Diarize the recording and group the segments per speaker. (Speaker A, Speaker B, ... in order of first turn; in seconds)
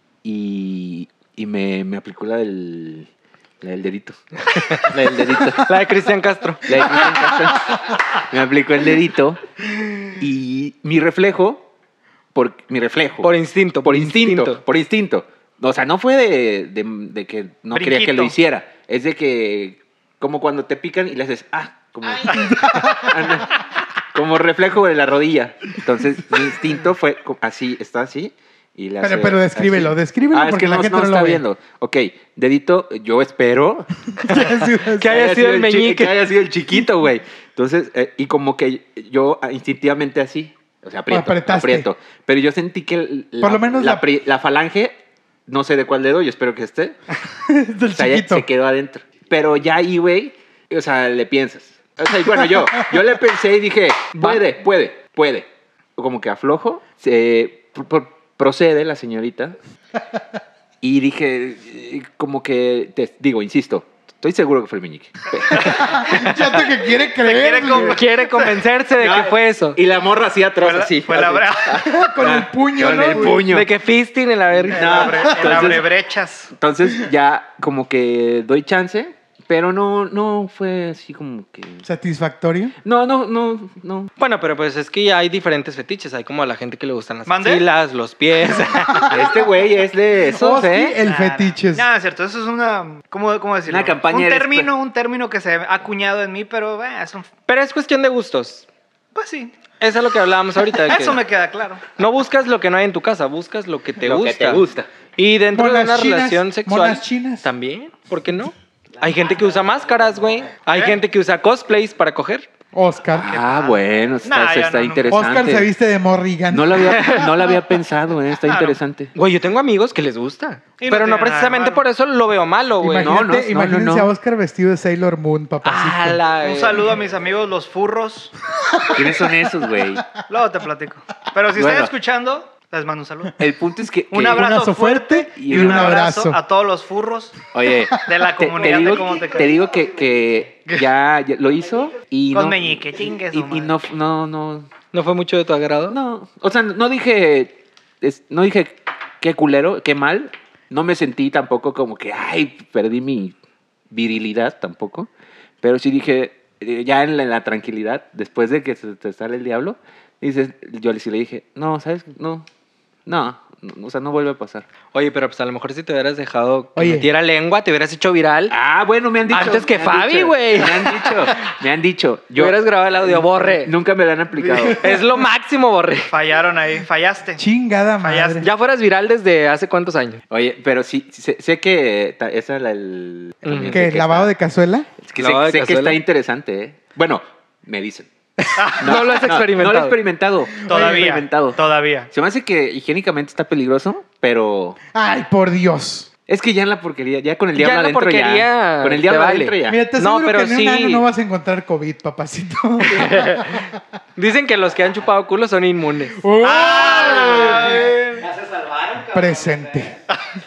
Speaker A: 0.2-3.1, 3.6-4.2, 4.7-5.7, 6.7-9.4, 10.1-11.7, 12.3-13.3, 13.8-34.4, 35.0-45.0, 45.5-47.0, 47.9-59.6, 60.8-66.1, 69.0-73.7, 74.7-75.9, 76.6-81.8, 82.8-84.1, 89.1-91.0, 93.7-94.7, 104.0-104.9, 113.1-115.7, 116.5-119.1, 123.0-124.1, 128.9-130.1, 131.6-131.9, 133.4-134.5, 135.4-136.0, 137.5-144.7, 145.9-153.3, 153.9-155.1, 155.6-162.5, 163.1-164.7, 168.5-174.9, 180.3-184.3, 185.0-188.1, 188.7-194.8, 196.3-199.8
Speaker B: 4.5-6.9, 13.2-14.6, 34.9-36.2, 67.7-69.8, 73.4-75.2, 84.2-89.1, 97.5-98.7, 99.8-101.2, 102.0-104.7, 105.2-112.5, 117.0-117.3, 119.1-123.2, 125.6-126.9, 144.9-146.0, 164.9-168.5, 169.3-171.5, 172.4-173.7, 174.8-176.1, 178.4-180.2, 183.4-183.8, 185.2-186.0, 188.8-190.0, 197.6-201.1, 202.9-206.2
Speaker C: 17.7-18.4, 65.5-66.2, 67.2-68.5, 70.6-71.8, 74.7-76.5, 87.3-87.7, 91.0-97.3, 99.1-99.5, 100.8-101.8, 110.7-111.0, 113.3-115.2, 118.5-118.8, 120.8-121.8, 126.4-128.3, 130.3-133.4, 134.1-137.4, 138.1-139.6, 142.3-143.8, 174.4-174.8, 176.1-177.4, 178.0-178.4, 188.6-188.8, 190.7-192.1, 206.4-208.2
Speaker D: 22.2-23.4, 29.0-31.4, 34.2-35.2, 41.1-41.9, 43.4-44.0, 47.3-48.5, 52.2-52.9, 65.6-68.0, 71.8-73.4, 81.8-82.8, 88.9-89.2, 90.3-91.9, 105.5-107.5, 112.7-113.4, 115.1-117.3, 122.8-126.2, 128.6-130.0, 134.2-136.4, 166.8-167.1, 177.4-178.5, 183.7-184.9, 190.6-191.1, 194.9-196.1, 199.7-203.8, 206.2-207.9, 209.1-209.9
Speaker E: 109.0-110.6, 138.6-140.5, 141.5-142.0, 206.6-210.0